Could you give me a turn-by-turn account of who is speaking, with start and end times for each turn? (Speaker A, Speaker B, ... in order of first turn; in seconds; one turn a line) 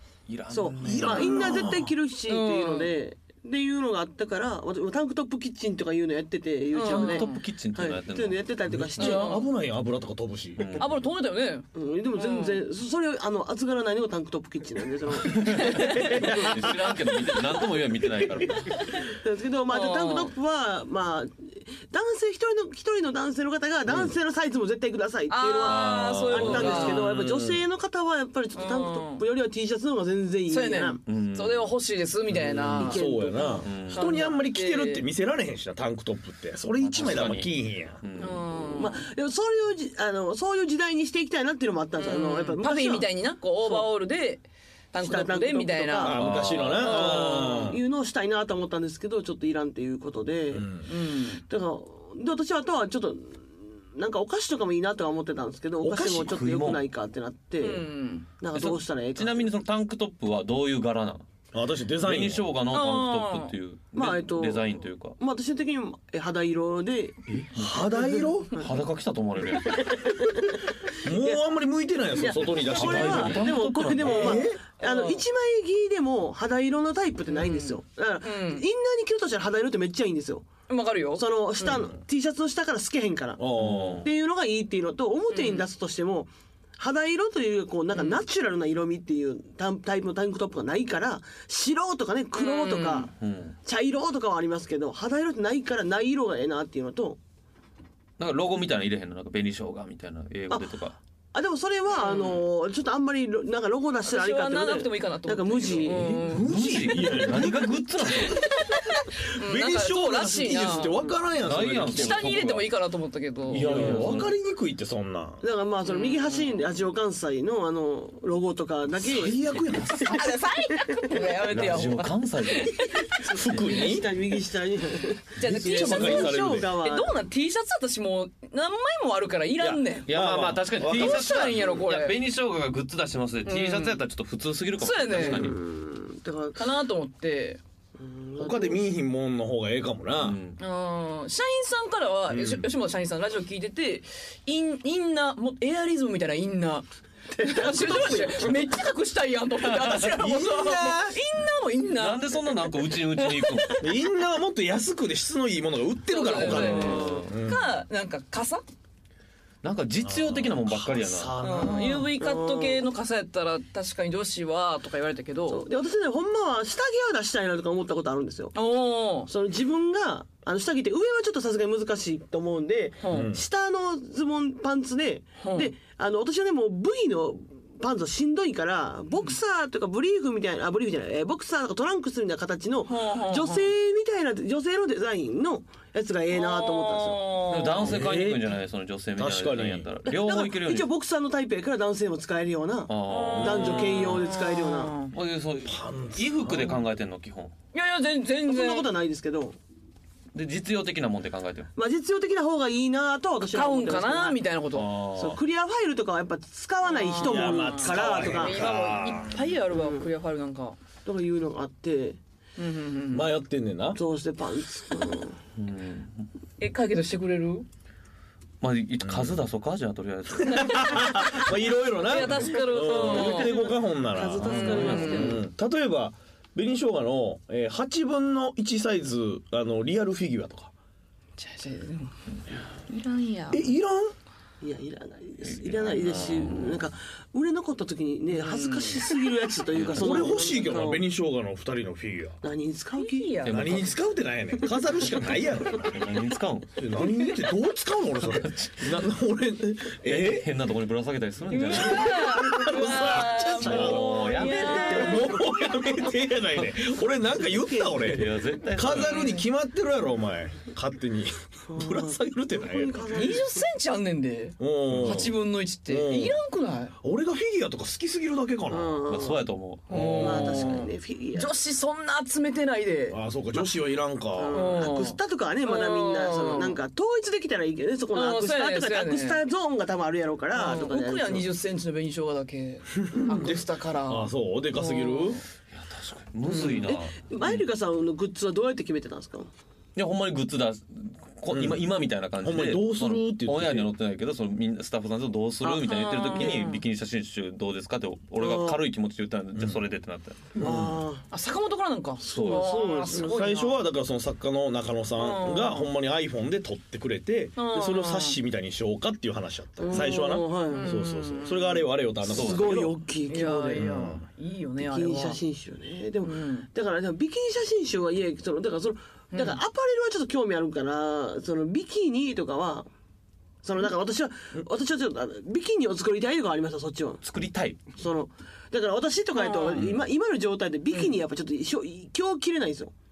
Speaker A: 0.3-1.4
Speaker B: 0.5-9.4
Speaker C: 0.8-1.9
Speaker D: 1.1-1.7
Speaker D: 2.3-2.9
Speaker D: 6.7-7.4
Speaker A: 6.9-8.4
Speaker C: 8.7-10.9
Speaker D: 9.0-9.4
Speaker A: 10.6-11.0
Speaker D: 10.8-12.6
Speaker B: 11.7-16.9
Speaker A: 15.2-18.8
Speaker D: 15.5-16.5
Speaker D: 18.6-19.0
Speaker B: 19.0-31.0
Speaker D: 19.7-20.3
Speaker C: 23.9-24.1
Speaker D: 25.3-27.0
Speaker A: 25.6-27.0
Speaker C: 26.4-27.6
Speaker D: 28.5-29.2
Speaker D: 30.5-33.0
Speaker A: 31.1-31.7
Speaker C: 32.3-38.0
Speaker B: 32.7-33.7
Speaker A: 33.6-34.0
Speaker D: 33.9-35.0
Speaker A: 36.8-38.8
Speaker D: 38.2-39.0
Speaker B: 38.7-43.9
Speaker D: 42.0-47.7
Speaker B: 45.0-59.5
Speaker C: 46.0-47.8
Speaker A: 46.2-46.8
Speaker C: 50.5-50.9
Speaker D: 50.9-51.4
Speaker A: 55.8-56.8
Speaker D: 57.6-58.3
Speaker A: 58.5-61.3
Speaker C: 61.5-62.5
Speaker A: 62.0-65.2
Speaker D: 62.7-63.5
Speaker B: 63.9-67.2
Speaker A: 67.3-67.7
Speaker C: 67.5-68.6
Speaker B: 67.9-68.7
Speaker A: 68.5-69.9
Speaker B: 69.7-71.4
Speaker C: 71.0-74.6
Speaker B: 72.2-80.5
Speaker A: 72.6-74.4
Speaker D: 74.0-75.2
Speaker D: 77.3-78.6
Speaker D: 80.7-81.8
Speaker B: 81.1-83.4
Speaker C: 83.4-84.1
Speaker A: 83.6-84.1
Speaker B: 84.0-93.1
Speaker D: 85.3-85.7
Speaker D: 87.9-88.2
Speaker D: 92.3-93.1
Speaker A: 93.2-93.6
Speaker B: 93.6-97.2
Speaker A: 98.2-101.0
Speaker B: 101.3-106.2
Speaker D: 102.0-102.4
Speaker D: 104.0-106.5
Speaker C: 105.8-107.8
Speaker A: 106.3-108.5
Speaker D: 108.3-111.1
Speaker C: 109.2-112.3
Speaker A: 111.4-112.8
Speaker D: 111.9-114.3
Speaker A: 113.5-114.3
Speaker C: 113.5-115.4
Speaker B: 115.4-119.6
Speaker D: 115.8-116.4
Speaker C: 118.9-120.3
Speaker A: 119.7-120.1
Speaker D: 120.0-123.2
Speaker B: 121.0-121.3
Speaker A: 121.5-122.8
Speaker B: 123.2-127.1
Speaker C: 123.2-124.1
Speaker D: 125.4-130.1
Speaker C: 125.4-126.7
Speaker C: 129.6-131.6
Speaker A: 130.1-135.6
Speaker D: 130.8-132.1
Speaker D: 133.4-134.0
Speaker D: 134.8-135.5
Speaker B: 135.2-136.7
Speaker D: 136.6-137.6
Speaker B: 138.0-138.8
Speaker C: 138.4-140.4
Speaker A: 140.2-140.6
Speaker D: 140.6-146.8
Speaker C: 142.3-142.7
Speaker B: 147.3-148.5
Speaker D: 147.4-153.8
Speaker A: 149.6-150.2
Speaker C: 150.1-151.2
Speaker A: 151.9-153.8
Speaker C: 153.8-157.8
Speaker D: 156.1-158.6
Speaker A: 156.2-157.3
Speaker A: 159.6-161.3
Speaker C: 160.0-162.1
Speaker D: 161.4-165.7
Speaker B: 162.2-162.8
Speaker B: 165.5-168.6
Speaker D: 168.5-169.3
Speaker B: 169.2-187.4
Speaker D: 173.0-173.3
Speaker C: 173.1-173.4
Speaker D: 175.4-175.7
Speaker D: 182.9-183.7
Speaker D: 186.3-187.9
Speaker A: 187.5-190.9
Speaker C: 187.8-188.5
Speaker C: 189.2-189.9
Speaker B: 190.0-194.9
Speaker A: 192.9-194.2
Speaker D: 193.1-195.1
Speaker C: 193.5-194.0
Speaker A: 195.1-197.5
Speaker C: 195.6-196.8
Speaker D: 197.7-198.9
Speaker B: 198.4-199.6
Speaker A: 200.3-201.7
Speaker B: 201.7-204.4
Speaker D: 203.5-204.9
Speaker A: 204.7-205.4
Speaker B: 205.1-208.7
Speaker D: 206.8-210.8
Speaker C: 207.2-209.4
Speaker B: 209.7-210.1
Speaker B: 211.0-212.2
Speaker D: 212.6-213.3
Speaker C: 213.1-214.0
Speaker B: 213.9-215.4
Speaker A: 215.6-216.3
Speaker D: 216.6-217.7
Speaker A: 218.6-221.2
Speaker C: 219.0-219.4
Speaker C: 220.4-230.7
Speaker D: 220.5-223.7
Speaker B: 222.8-225.5
Speaker D: 224.4-225.4
Speaker A: 224.4-225.3
Speaker D: 231.4-232.1
Speaker D: 232.9-233.6
Speaker C: 233.5-234.1
Speaker B: 234.6-241.0
Speaker A: 235.4-236.9
Speaker D: 238.3-239.1
Speaker A: 239.7-240.2
Speaker C: 239.9-242.4
Speaker B: 242.4-243.4
Speaker D: 243.0-243.8
Speaker A: 243.4-243.9
Speaker C: 243.4-245.9
Speaker A: 245.0-246.8
Speaker C: 246.7-250.5
Speaker A: 248.2-249.0
Speaker A: 250.1-252.2
Speaker D: 251.5-255.4
Speaker C: 251.7-263.3
Speaker A: 253.2-255.2
Speaker B: 254.8-255.3
Speaker B: 257.4-257.9
Speaker A: 257.8-259.4
Speaker D: 258.9-259.4
Speaker B: 261.7-263.6
Speaker D: 263.1-266.9
Speaker C: 264.6-266.4
Speaker C: 267.0-269.1
Speaker B: 268.7-269.4
Speaker A: 269.1-270.6
Speaker D: 269.9-273.2
Speaker C: 269.9-270.4
Speaker B: 270.2-271.5
Speaker C: 273.1-274.8
Speaker B: 274.3-281.5
Speaker D: 274.5-276.8
Speaker D: 278.1-279.4
Speaker D: 280.5-285.4
Speaker C: 283.1-285.4
Speaker A: 285.7-287.6
Speaker D: 286.4-287.0
Speaker B: 286.5-289.5
Speaker A: 289.9-300.5
Speaker C: 291.5-291.9
Speaker C: 292.4-293.9
Speaker B: 295.6-296.7
Speaker D: 295.8-296.8
Speaker B: 298.4-298.8
Speaker C: 299.5-299.8
Speaker C: 300.5-301.0
Speaker B: 300.6-301.2
Speaker D: 301.3-303.8
Speaker A: 302.2-302.9
Speaker B: 302.2-303.3
Speaker C: 303.1-312.9
Speaker D: 305.2-305.8
Speaker D: 307.6-308.4
Speaker B: 309.8-311.0
Speaker D: 309.8-311.8
Speaker B: 312.2-313.9
Speaker A: 312.3-312.7
Speaker D: 313.3-315.4
Speaker C: 313.7-314.2
Speaker B: 314.8-322.9
Speaker D: 316.2-316.7
Speaker D: 319.3-319.6
Speaker B: 323.6-327.2
Speaker A: 327.2-327.8
Speaker B: 327.9-332.9
Speaker D: 329.3-329.8